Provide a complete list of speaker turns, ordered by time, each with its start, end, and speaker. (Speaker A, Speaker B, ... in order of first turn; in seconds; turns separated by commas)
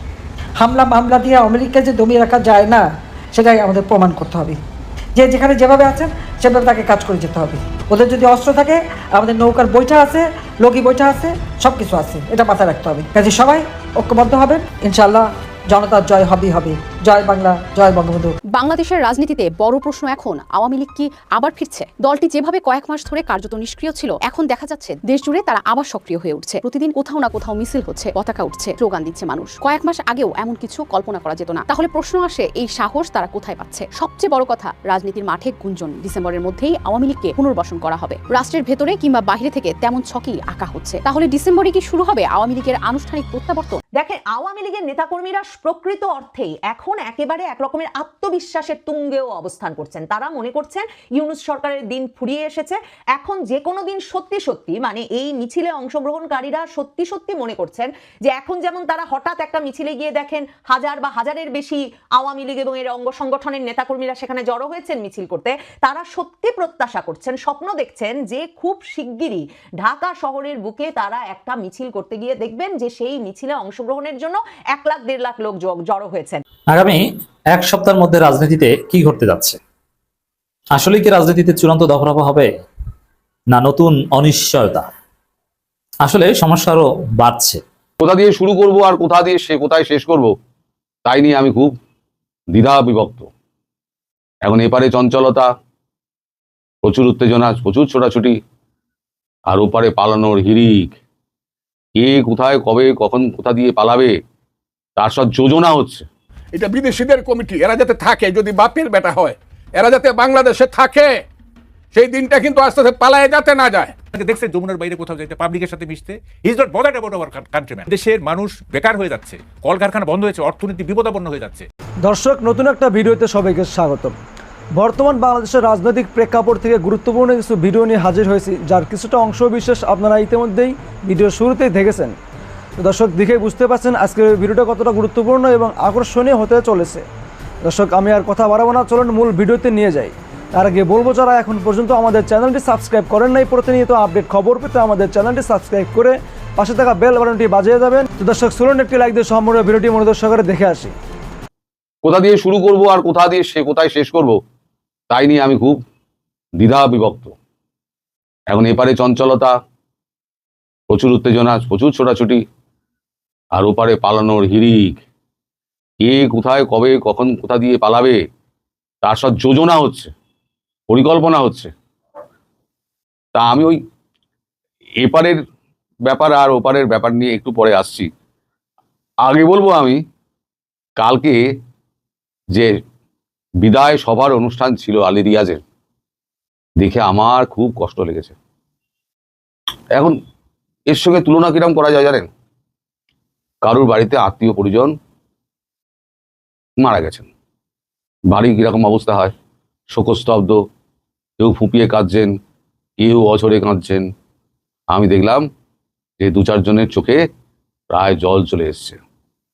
Speaker A: 0.6-4.6, Speaker A: 5.2-18.3, Speaker B: 18.5-43.8, Speaker C: 44.0-76.4, Speaker D: 76.7-79.6, Speaker D: 80.8-82.6, Speaker D: 83.5-84.9, Speaker D: 86.0-87.6, Speaker E: 88.0-90.3, Speaker E: 91.0-91.8, Speaker E: 92.5-93.3, Speaker E: 94.4-95.5, Speaker E: 96.8-98.4, Speaker E: 99.5-101.0, Speaker E: 102.0-104.2, Speaker E: 105.0-106.1, Speaker F: 106.5-111.2, Speaker F: 111.9-114.0, Speaker G: 114.1-121.7, Speaker H: 122.0-124.2, Speaker H: 124.8-132.2, Speaker H: 132.8-137.1, Speaker H: 137.7-150.9, Speaker E: 152.0-154.4, Speaker E: 155.1-155.8, Speaker E: 156.6-157.3, Speaker E: 158.5-159.6, Speaker E: 160.9-162.4, Speaker E: 163.6-165.0, Speaker E: 166.0-168.2, Speaker E: 169.0-170.1, Speaker E: 170.9-171.7, Speaker E: 173.3-173.8, Speaker E: 175.0-175.4, Speaker E: 176.1-178.1, Speaker E: 179.2-180.0, Speaker E: 181.0-181.4, Speaker E: 183.6-185.6, Speaker E: 186.8-188.4, Speaker E: 189.9-190.2, Speaker E: 190.9-192.3, Speaker E: 193.6-194.9, Speaker E: 196.8-197.3, Speaker E: 198.3-199.3, Speaker E: 199.9-200.6, Speaker E: 201.4-202.3, Speaker E: 203.0-204.1, Speaker E: 204.9-205.5, Speaker E: 206.2-207.2, Speaker E: 207.9-209.0